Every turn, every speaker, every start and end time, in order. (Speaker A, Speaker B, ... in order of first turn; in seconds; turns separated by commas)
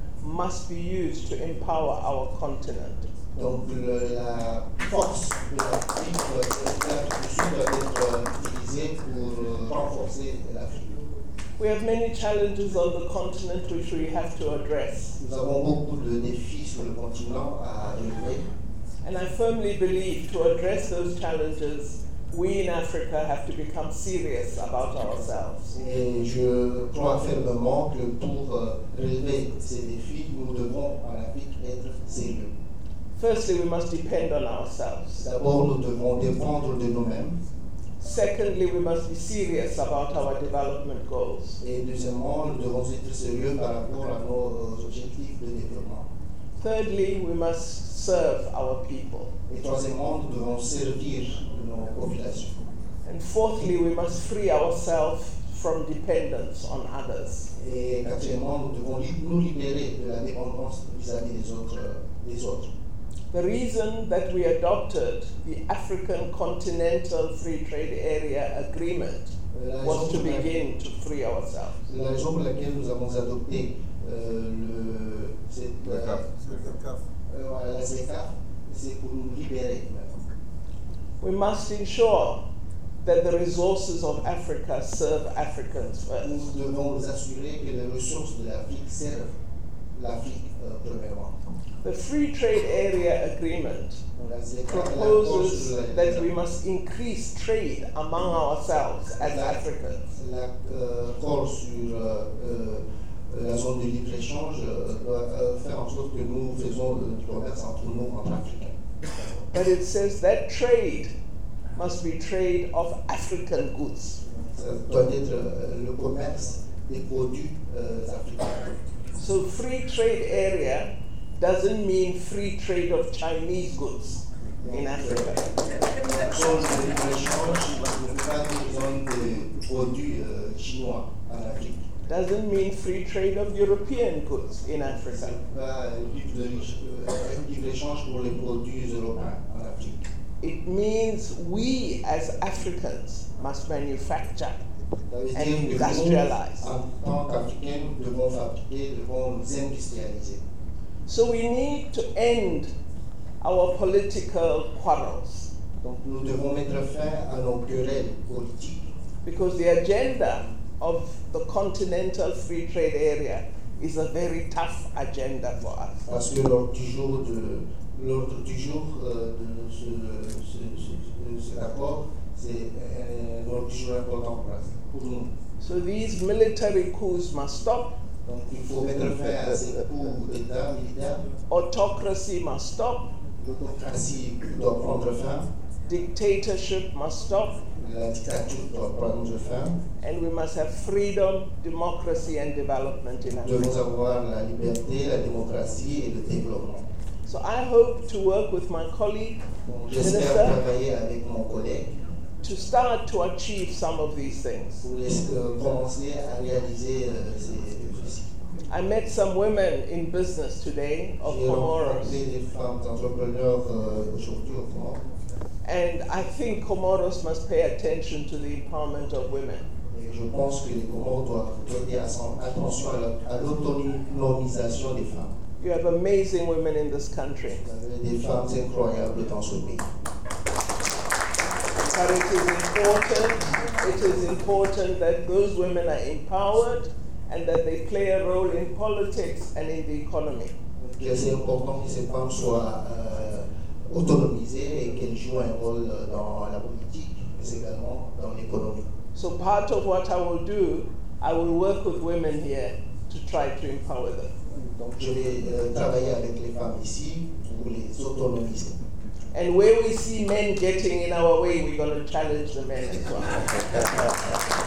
Speaker A: 0.2-3.1, Speaker B: 3.4-10.9, Speaker A: 11.6-15.2, Speaker B: 15.2-18.4, Speaker A: 19.0-25.7, Speaker B: 25.7-32.5, Speaker A: 33.2-35.2, Speaker B: 35.2-37.4, Speaker A: 38.0-41.6, Speaker B: 41.6-46.1, Speaker A: 46.6-49.3, Speaker B: 49.5-52.7, Speaker A: 53.0-57.5, Speaker B: 57.5-62.7, Speaker A: 63.3-71.8, Speaker B: 69.5-70.6, Speaker B: 71.9-76.6, Speaker B: 77.3-80.2, Speaker A: 81.2-82.4, Speaker A: 83.0-86.3, Speaker B: 86.2-89.3, Speaker B: 89.9-91.4, Speaker A: 91.8-94.0, Speaker B: 94.2-96.3, Speaker A: 94.7-100.0, Speaker B: 99.2-108.8, Speaker A: 109.5-111.1, Speaker A: 111.8-114.2, Speaker B: 114.2-118.8, Speaker A: 119.2-125.5, Speaker B: 124.6-125.3, Speaker B: 126.0-131.8, Speaker A: 132.1-135.3, Speaker B: 135.1-140.0, Speaker A: 140.4-144.6, Speaker B: 145.1-150.4, Speaker A: 145.3-146.7, Speaker A: 151.1-152.7, Speaker A: 153.4-155.5, Speaker B: 155.8-158.9, Speaker A: 159.2-166.0, Speaker B: 166.1-175.3, Speaker A: 175.6-177.9, Speaker B: 178.2-181.2, Speaker A: 181.5-183.1, Speaker B: 183.4-185.5, Speaker A: 185.9-187.6, Speaker B: 187.8-189.8, Speaker A: 190.0-193.7, Speaker B: 193.4-196.9, Speaker A: 197.2-199.4, Speaker B: 199.7-201.9, Speaker A: 199.9-200.6, Speaker A: 202.4-204.8, Speaker B: 204.8-208.3, Speaker A: 208.7-212.2, Speaker B: 211.2-215.0, Speaker A: 215.6-219.7, Speaker B: 219.9-225.4, Speaker A: 225.6-227.6, Speaker B: 227.6-229.9, Speaker A: 231.9-240.5, Speaker B: 240.8-248.8, Speaker A: 249.1-254.3, Speaker B: 254.5-258.8, Speaker A: 259.3-264.1